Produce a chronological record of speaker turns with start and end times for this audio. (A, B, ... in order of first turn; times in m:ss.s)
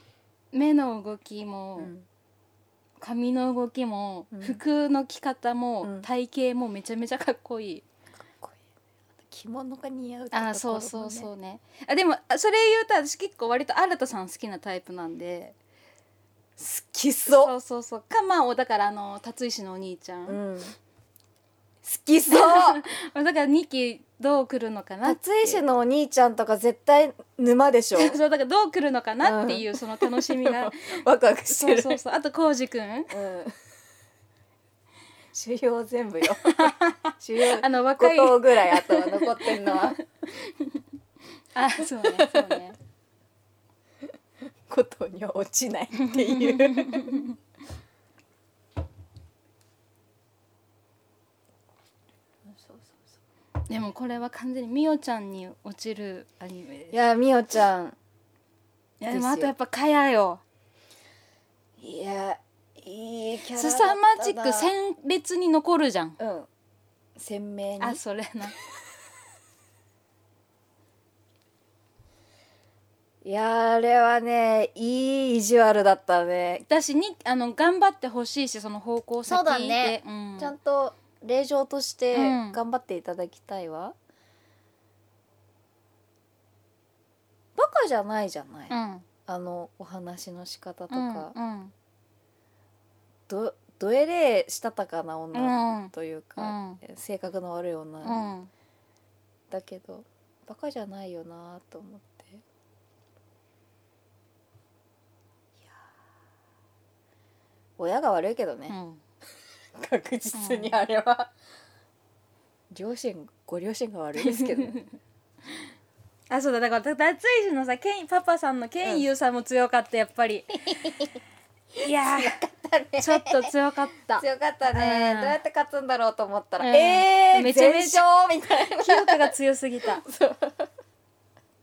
0:00.5-0:01.9 A
0:01.8-0:02.0 B
0:03.0-0:07.8 A
0:04.3-0:04.6 B
0:08.2-0:08.6 B
0:09.2-0:11.3 B
0:10.3-0:15.5 A
0:16.6-0:17.5 B
0:17.3-0:20.4 A
0:20.2-0:20.7 B
0:21.8-0:22.8 B
0:22.3-0:25.6 A
0:25.0-0:28.2 B
0:28.0-0:33.1 A
0:29.2-0:32.0 B
0:33.1-0:33.6 B
0:35.3-0:40.0 B
0:36.4-0:40.7 A
0:41.5-0:42.8 A
0:41.8-0:42.6 B
0:44.7-0:47.2 B
0:46.0-0:47.3 A
0:52.5-0:53.0 B
0:53.7-0:56.9 A
0:56.9-0:58.0 B
0:59.0-1:00.4 A
0:59.1-0:59.5 B
1:01.8-1:04.7 B
1:03.5-1:06.2 A
1:06.2-1:06.5 B
1:07.2-1:08.0 B
1:07.8-1:08.5 A
1:13.2-1:16.6 B
1:16.7-1:20.5 A
1:19.2-1:23.9 B
1:22.1-1:22.6 A
1:27.6-1:28.7 B
1:28.7-1:29.0 A
1:29.2-1:31.3 B
1:30.9-1:31.7 A
1:33.3-1:38.3 B
1:35.3-1:36.8 A
1:38.0-1:38.5 A
1:39.5-1:42.4 B
1:47.8-1:48.8 B
1:48.7-1:49.0 A
1:49.7-1:51.3 B
1:50.3-1:50.8 A
1:52.7-1:54.8 B
1:54.2-1:54.9 A
1:56.3-2:00.6 A
2:00.6-2:01.1 B
2:01.8-2:03.5 B
2:01.8-2:02.4 A
2:03.0-2:05.4 A
2:04.2-2:09.3 B
2:06.6-2:08.0 A
2:08.7-2:10.0 A
2:10.0-2:10.7 B